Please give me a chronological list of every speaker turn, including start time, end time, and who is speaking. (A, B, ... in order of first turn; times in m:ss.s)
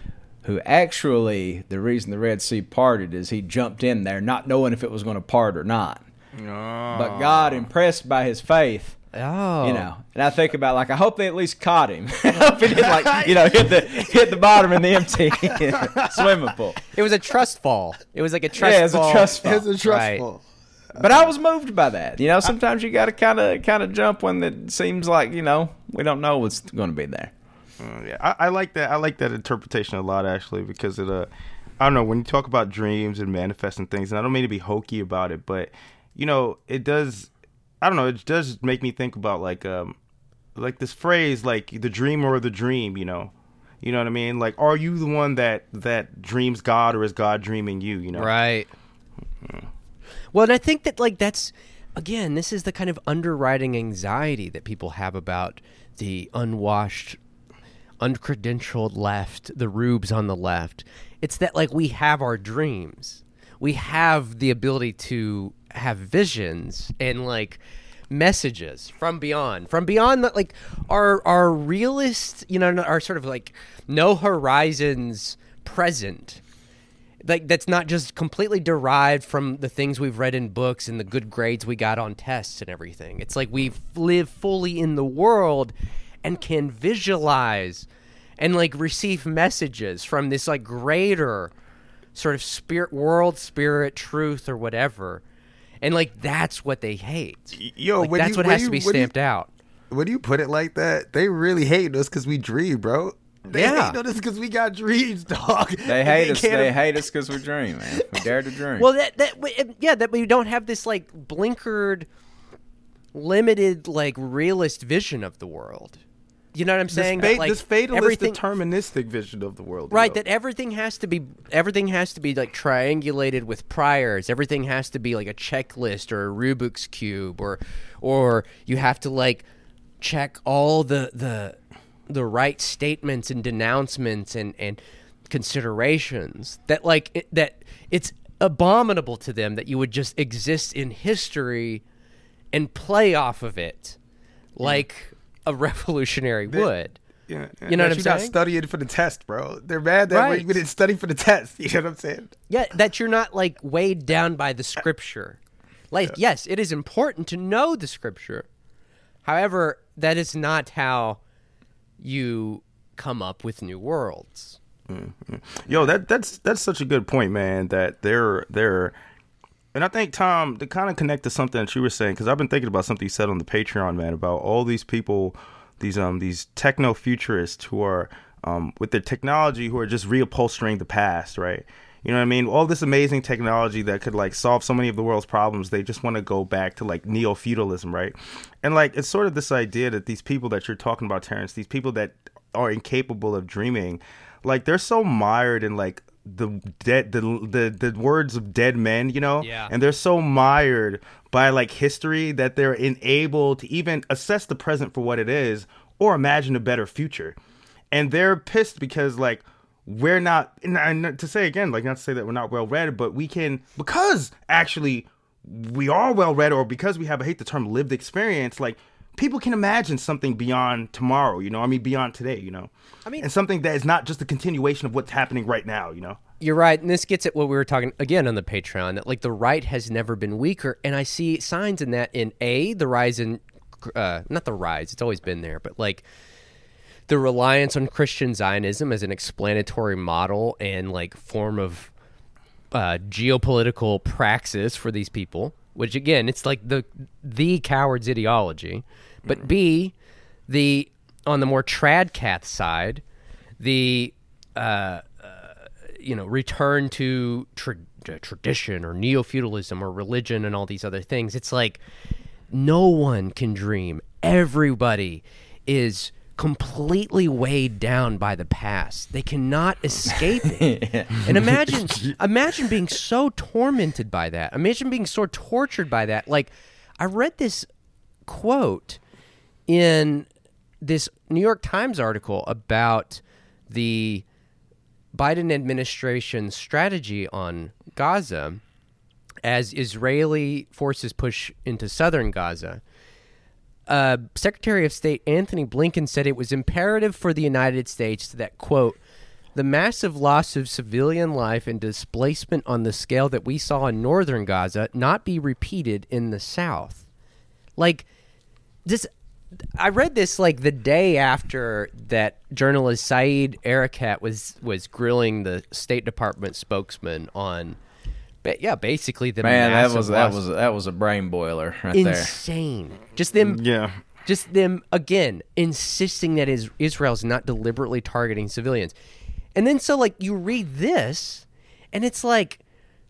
0:00.4-0:06.1 A
0:06.4-0:07.7 B
0:06.9-0:09.0 A
0:09.1-0:09.9 C
0:09.6-0:16.8 A
0:12.4-0:14.2 B
0:15.5-0:16.3 B
0:16.9-0:20.2 C
0:18.6-0:19.7 A
0:19.4-0:20.4 B
0:20.9-0:21.3 B
0:21.0-0:27.3 A
0:27.8-0:37.3 B
0:37.8-0:40.0 B
0:40.6-0:48.3 B
0:48.2-0:48.7 C
0:50.3-0:57.2 C
0:58.0-1:16.4 C
1:17.2-1:27.9 C
1:28.4-1:31.5 C
1:32.2-1:35.2 C
1:35.8-1:39.5 C
1:37.6-1:39.1 B
1:39.9-1:46.8 B
1:43.5-1:44.0 C
1:45.8-1:48.9 A
1:48.8-1:52.1 C
1:53.1-1:56.0 C
1:56.6-1:58.4 C
1:56.9-2:00.2 B
1:59.9-2:09.4 C
2:10.0-2:21.8 C
2:22.5-2:24.0 C
2:24.6-2:27.0 C
2:27.3-2:32.4 B
2:27.7-2:28.4 C
2:30.1-2:30.6 C
2:32.5-2:35.4 C
2:35.9-2:38.5 C
2:39.2-2:41.2 C
2:42.0-2:44.6 C
2:44.9-2:49.0 B
2:49.7-3:27.4 B
3:19.4-3:19.7 C
3:27.9-3:46.2 B
3:46.4-3:56.0 C
3:57.1-4:01.9 C
4:02.7-4:09.9 C
4:10.5-4:13.0 C
4:13.6-4:21.8 C
4:22.5-4:37.7 C
4:30.6-4:31.3 A
4:38.3-4:39.0 C
4:39.7-4:40.3 C
4:40.8-4:44.2 C
4:45.1-4:48.6 C
4:49.4-4:52.8 C
4:53.9-4:59.0 C
4:59.6-5:07.0 C
5:07.8-5:08.0 C
5:09.8-5:17.8 C
5:18.4-5:20.4 C
5:19.4-5:22.4 A
5:21.9-5:23.6 C
5:23.4-5:24.0 B
5:24.2-5:28.9 C
5:29.6-5:32.6 C